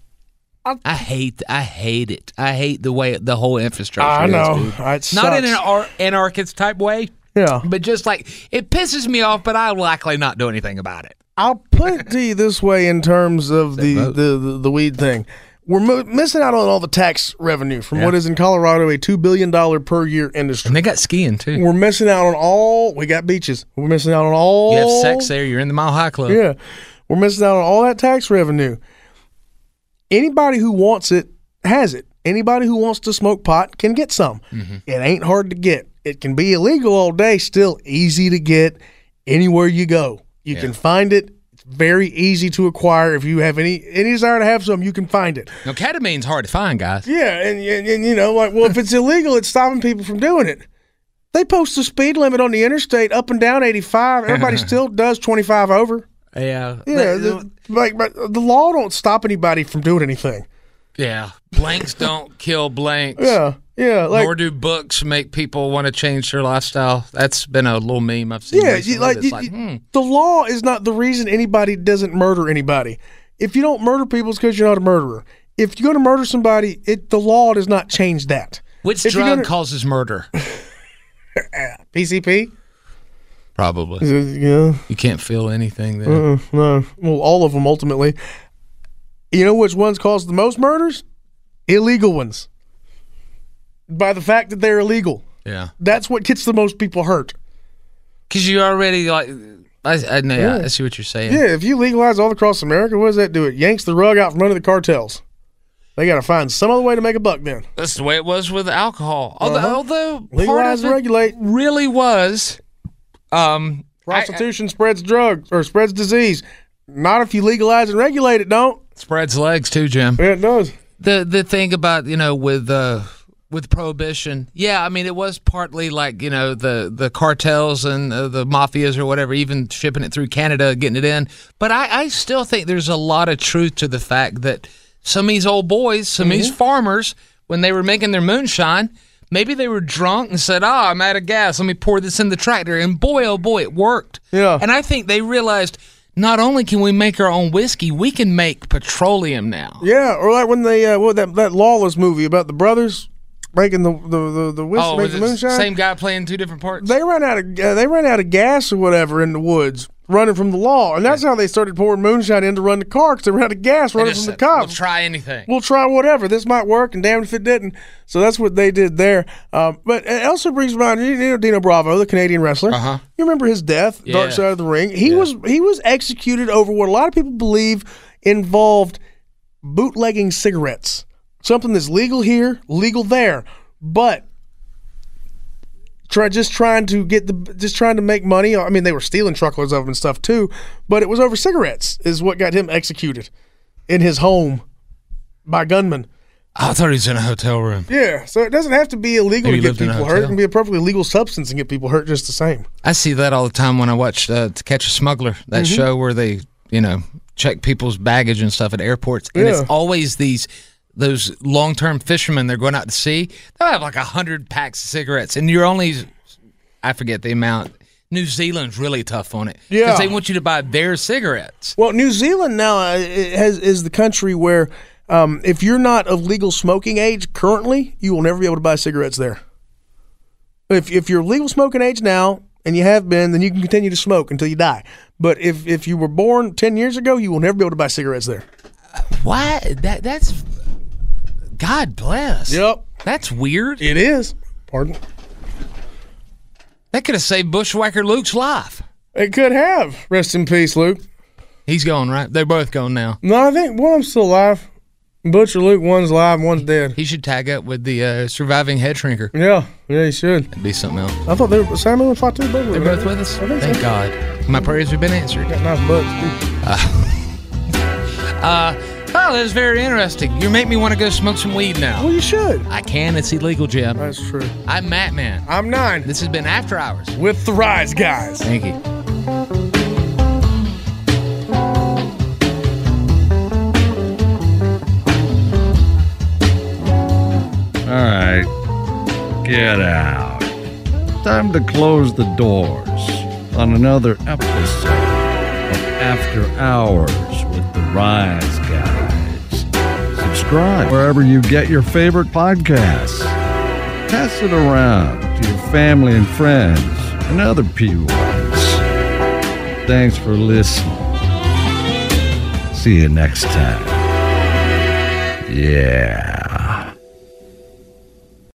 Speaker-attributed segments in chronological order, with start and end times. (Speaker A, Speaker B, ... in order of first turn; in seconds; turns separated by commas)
Speaker A: 0.8-11.2, Speaker B: 4.0-5.6, Speaker B: 7.3-7.7, Speaker B: 11.4-20.8, Speaker A: 13.8-14.2, Speaker A: 20.7-21.6, Speaker B: 21.6-25.3, Speaker A: 24.7-26.4, Speaker B: 26.3-28.8, Speaker B: 30.1-45.5, Speaker A: 34.5-34.8, Speaker A: 45.6-47.1, Speaker B: 47.1-50.7, Speaker B: 51.3-56.1, Speaker A: 54.3-54.7, Speaker A: 56.4-57.5, Speaker B: 56.9-60.5, Speaker A: 61.0-63.4, Speaker B: 63.2-64.3, Speaker A: 64.1-69.8, Speaker B: 68.5-79.5, Speaker A: 78.8-80.3, Speaker B: 81.4-82.5, Speaker A: 83.6-84.1, Speaker B: 84.0-84.8, Speaker A: 84.9-86.2, Speaker B: 86.0-88.2, Speaker B: 89.3-91.0, Speaker B: 91.7-92.5, Speaker B: 93.9-95.2, Speaker A: 95.5-95.7, Speaker B: 95.8-97.4, Speaker A: 98.3-101.4, Speaker B: 100.4-100.7, Speaker B: 101.3-105.2, Speaker B: 106.0-107.7, Speaker A: 107.8-112.6, Speaker B: 109.4-109.8, Speaker B: 110.3-111.4, Speaker A: 113.3-114.4, Speaker B: 114.1-118.8, Speaker A: 119.0-120.2, Speaker B: 120.2-120.7, Speaker A: 121.0-149.8, Speaker B: 136.2-136.5, Speaker B: 144.3-144.6, Speaker B: 149.8-155.7, Speaker A: 154.8-156.9, Speaker B: 156.8-164.8, Speaker A: 164.0-165.5, Speaker B: 165.5-179.0, Speaker A: 172.7-173.0, Speaker A: 174.1-174.5, Speaker B: 179.6-184.3, Speaker B: 186.1-193.3, Speaker B: 193.9-194.6, Speaker B: 195.5-196.1, Speaker A: 196.6-197.9, Speaker B: 197.9-202.7, Speaker A: 199.4-200.4, Speaker A: 202.8-216.1, Speaker B: 205.5-205.9, Speaker B: 209.3-209.7, Speaker A: 216.8-221.8, Speaker B: 219.7-220.1, Speaker B: 221.8-229.4, Speaker B: 230.7-238.4, Speaker A: 238.9-240.4, Speaker A: 241.6-243.9, Speaker B: 242.5-242.9, Speaker B: 243.8-245.0, Speaker A: 246.9-248.8, Speaker B: 249.2-251.0, Speaker A: 251.7-253.2, Speaker B: 253.2-254.7, Speaker B: 255.2-257.0, Speaker A: 257.0-259.3, Speaker B: 259.3-260.5, Speaker A: 260.5-261.2, Speaker B: 261.3-263.8, Speaker A: 262.7-265.5, Speaker B: 265.5-266.4, Speaker A: 266.6-267.4, Speaker A: 268.4-272.1, Speaker B: 272.0-272.7, Speaker A: 272.7-274.1, Speaker B: 274.0-274.5, Speaker A: 274.7-275.5, Speaker B: 275.4-276.1, Speaker A: 276.1-277.2, Speaker B: 277.1-278.5, Speaker A: 278.4-278.8, Speaker C: 287.9-288.5, Speaker C: 289.4-290.5, Speaker C: 291.2-303.4, Speaker C: 304.1-308.8, Speaker C: 309.9-311.1, Speaker C: 312.7-314.0, Speaker C: 315.5-316.9